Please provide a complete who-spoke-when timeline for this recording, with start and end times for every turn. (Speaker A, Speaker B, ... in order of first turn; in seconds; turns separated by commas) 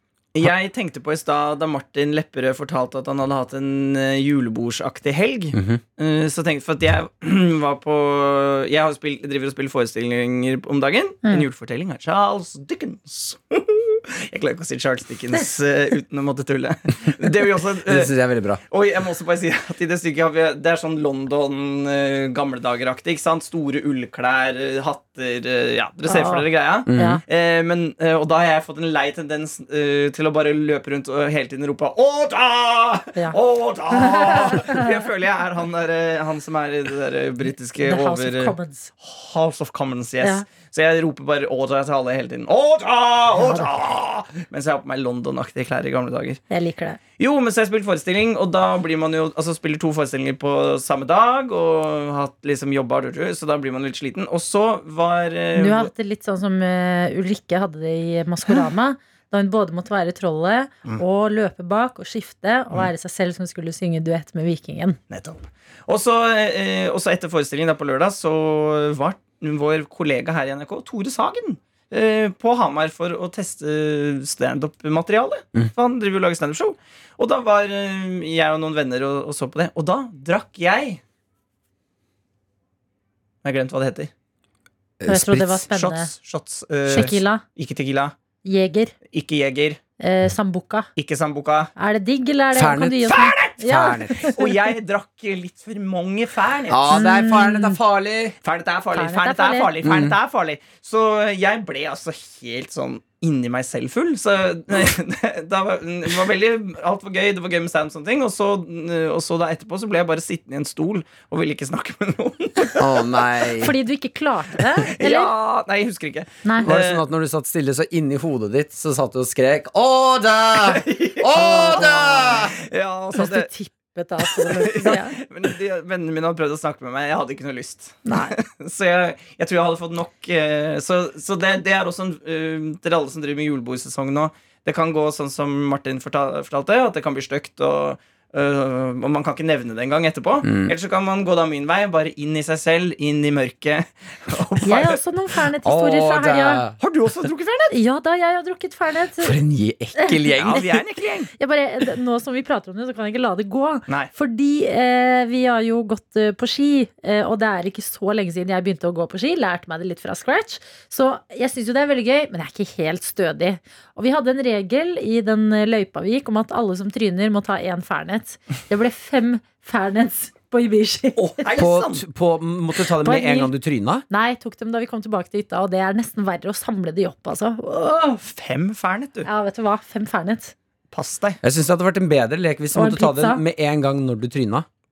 Speaker A: 0.3-18.1, Speaker B: 5.5-5.8, Speaker B: 17.9-18.6, Speaker A: 18.7-46.4, Speaker C: 26.1-27.2, Speaker B: 26.9-27.2, Speaker C: 34.0-34.9, Speaker C: 37.8-38.9, Speaker C: 43.4-43.7, Speaker C: 46.5-47.0, Speaker A: 47.2-55.9, Speaker C: 55.6-65.0, Speaker A: 65.1-81.0, Speaker A: 83.4-84.1, Speaker B: 85.0-85.7, Speaker C: 85.1-86.1, Speaker A: 85.7-88.2, Speaker C: 86.9-87.4, Speaker C: 88.5-88.9, Speaker A: 89.1-89.8, Speaker C: 90.0-90.9, Speaker A: 91.0-91.7, Speaker C: 91.8-94.4, Speaker B: 92.5-94.3, Speaker A: 94.2-96.9, Speaker B: 96.7-98.4, Speaker C: 96.9-97.8, Speaker A: 98.4-113.1, Speaker C: 98.9-99.7, Speaker B: 99.8-100.2, Speaker B: 112.8-113.8, Speaker C: 113.6-115.3, Speaker A: 114.9-117.0, Speaker C: 116.4-116.7, Speaker B: 116.6-122.6, Speaker A: 120.6-123.5, Speaker C: 121.3-122.2, Speaker C: 123.2-125.2, Speaker A: 124.3-145.0, Speaker C: 128.1-128.4, Speaker B: 140.4-140.8, Speaker C: 144.7-146.6, Speaker B: 145.6-146.8, Speaker A: 146.8-147.8, Speaker C: 147.7-149.4, Speaker B: 149.2-150.8, Speaker C: 150.0-150.2, Speaker A: 150.3-151.3, Speaker C: 151.4-171.4, Speaker A: 171.4-172.1, Speaker B: 171.6-174.1, Speaker C: 173.0-173.5, Speaker C: 174.1-178.2, Speaker A: 178.3-179.3, Speaker C: 179.3-180.5, Speaker A: 180.9-181.4, Speaker B: 181.4-184.7, Speaker C: 182.8-183.4